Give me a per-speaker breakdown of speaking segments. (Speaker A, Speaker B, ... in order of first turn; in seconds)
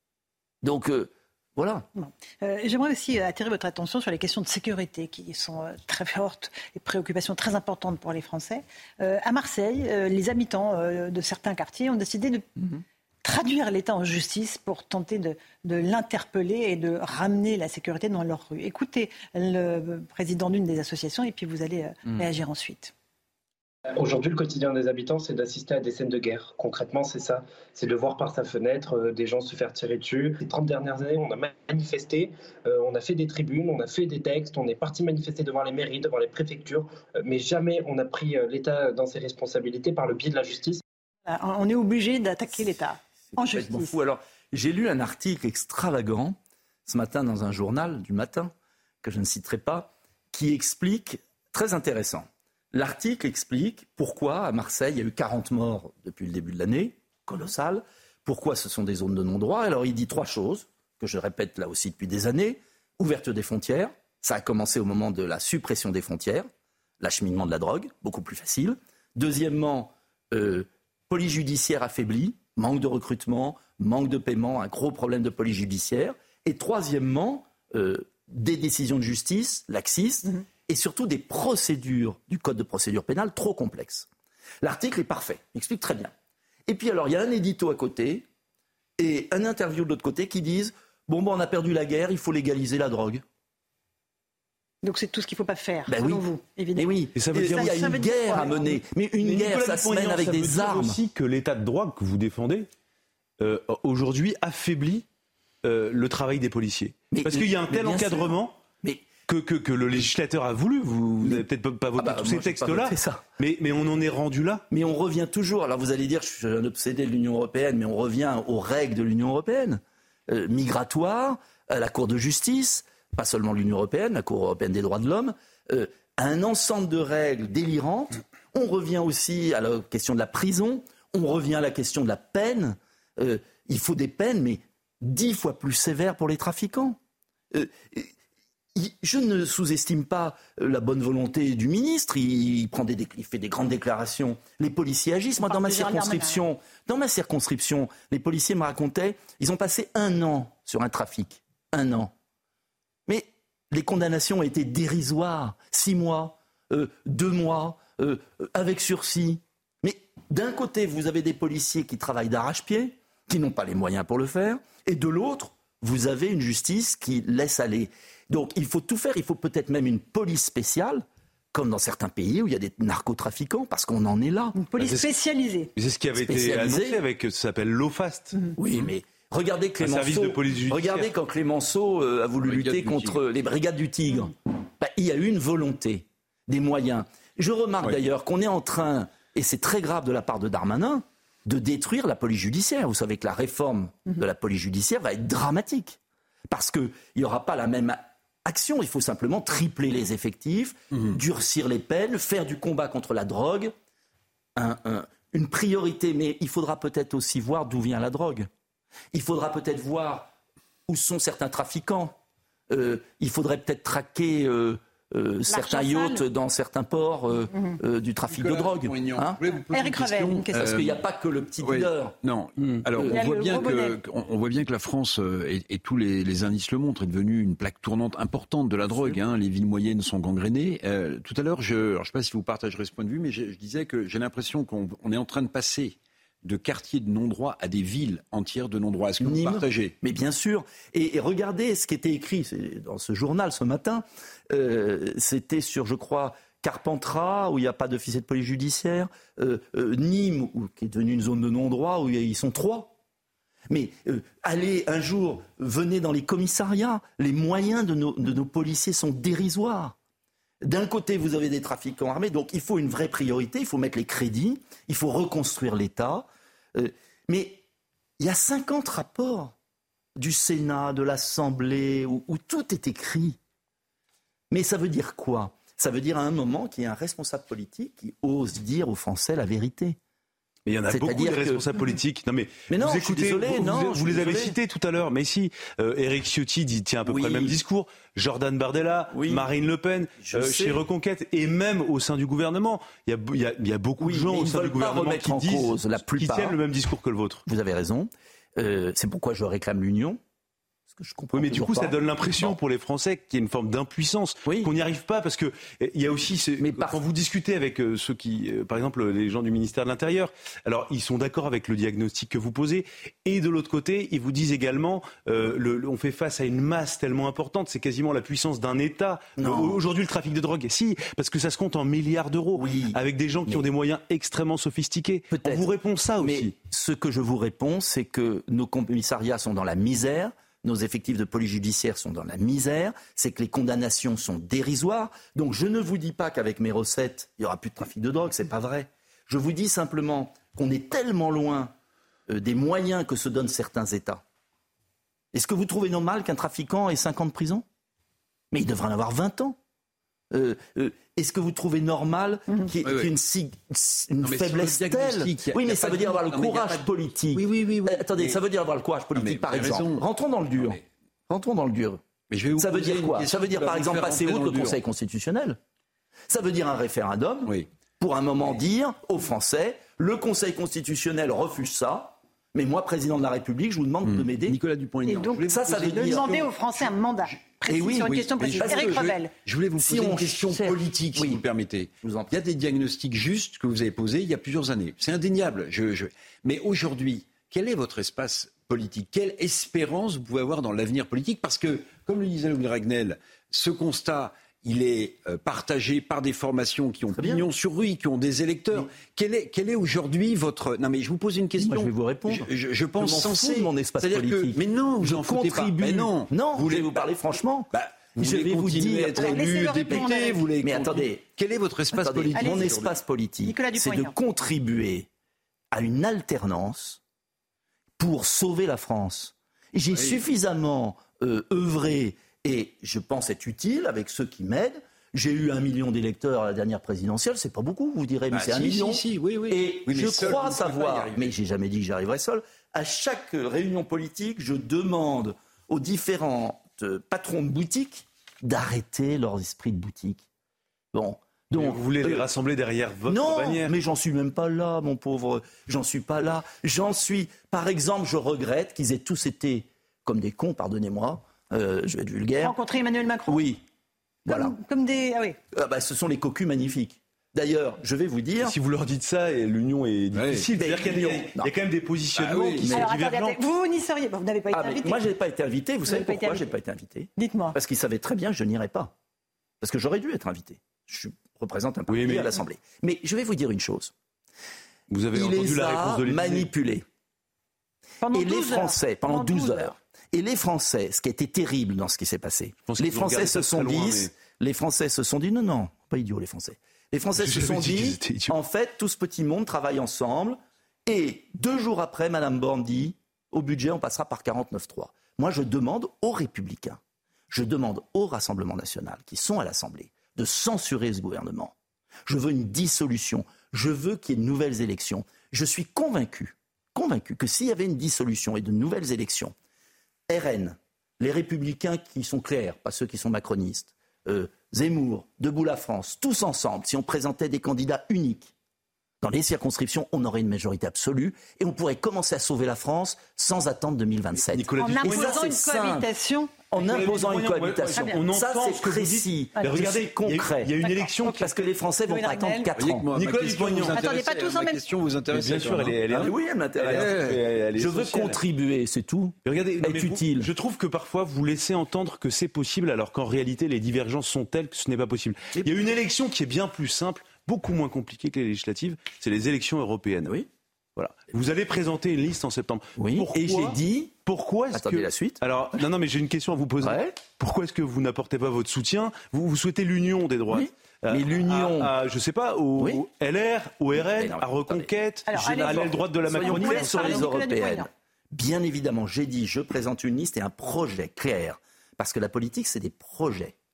Speaker A: 0.6-1.9, 43.3-48.5, 49.0-66.5, 67.0-84.1, 84.6-86.1, 86.7-88.2, 89.0-93.2, 95.9-96.2, 96.8-101.0, 107.1-109.1, 112.0-113.2, 114.7-137.0, 137.5-138.1, 138.8-152.1, 153.1-174.6, 176.2-177.0, 178.6-196.0, 196.5-203.7, 204.6-208.5, 209.1-210.3, 210.9-212.2, 212.7-219.4, 220.5-222.1, 239.2-252.9, 253.7-260.0, 260.6-267.6, 268.2-269.5, 270.2-273.4, 274.5-280.0, 280.9-281.8, 282.7-284.6, 287.1-287.6, 289.1-289.5, 290.2-290.9, 294.0-296.6, 297.5-300.2, 300.9-302.6, 304.5-304.7, 306.6-307.0, 319.4-319.8, 322.6-323.6, 325.3-341.7, 342.3-344.2, 345.3-347.6, 348.5-349.6, 350.3-360.8, 361.3-362.0, 362.6-365.6, 366.3-376.4, 377.7-379.0, 379.8-381.4, 382.0-382.3, 397.1-397.5, 401.6-410.0, 410.6-411.2, 411.9-415.1, 415.7-417.0, 418.0-440.2, 440.9-442.3, 443.1-452.6, 453.3-453.6, 454.2-454.6, 455.5-458.6, 460.6-461.5, 464.5-468.9, 469.6-473.9, 475.1-476.9, 478.1-496.8, 497.3-501.5, 502.1-509.3, 510.1-518.3, 519.0-525.9, 526.5-532.9, 536.0-536.9, 537.6-540.3, 545.4-545.8, 552.8-553.9, 554.5-555.2, 556.6-557.0, 560.3-561.7, 562.6-562.8, 563.7-564.7, 566.2-573.3
Speaker B: 1.9-22.9, 41.3-44.0, 94.8-98.8, 145.4-146.4, 174.6-175.7, 215.5-216.2, 219.7-221.0, 223.0-224.0, 375.1-379.3, 409.1-410.5, 412.3-412.8, 413.4-414.1, 452.4-453.4, 454.3-455.4, 462.7-465.1, 465.9-466.5, 467.2-467.6, 478.0-479.7, 524.6-528.0, 529.4-529.7, 530.6-532.5, 533.7-534.7, 565.1-567.7
Speaker C: 24.0-40.8
Speaker D: 97.2-98.6, 99.2-102.7, 103.4-105.0, 105.6-108.6, 109.3-114.6, 174.8-175.1, 175.8-178.3, 179.8-181.1, 280.7-297.4, 301.3-326.6, 441.6-443.8, 458.4-463.4, 471.9-472.4, 474.9-476.5, 482.7-484.1, 487.2-488.3, 524.3-525.4, 526.6-531.4, 532.9-533.9, 535.1-538.2, 539.3-550.2, 550.8-567.1
Speaker E: 182.4-183.2, 218.3-221.0, 221.6-240.0, 352.8-353.1, 354.2-358.4, 359.1-360.8, 362.3-364.8, 374.1-376.5, 377.3-413.0, 419.9-420.2, 428.3-431.4, 460.1-460.5, 462.2-462.8, 532.5-537.2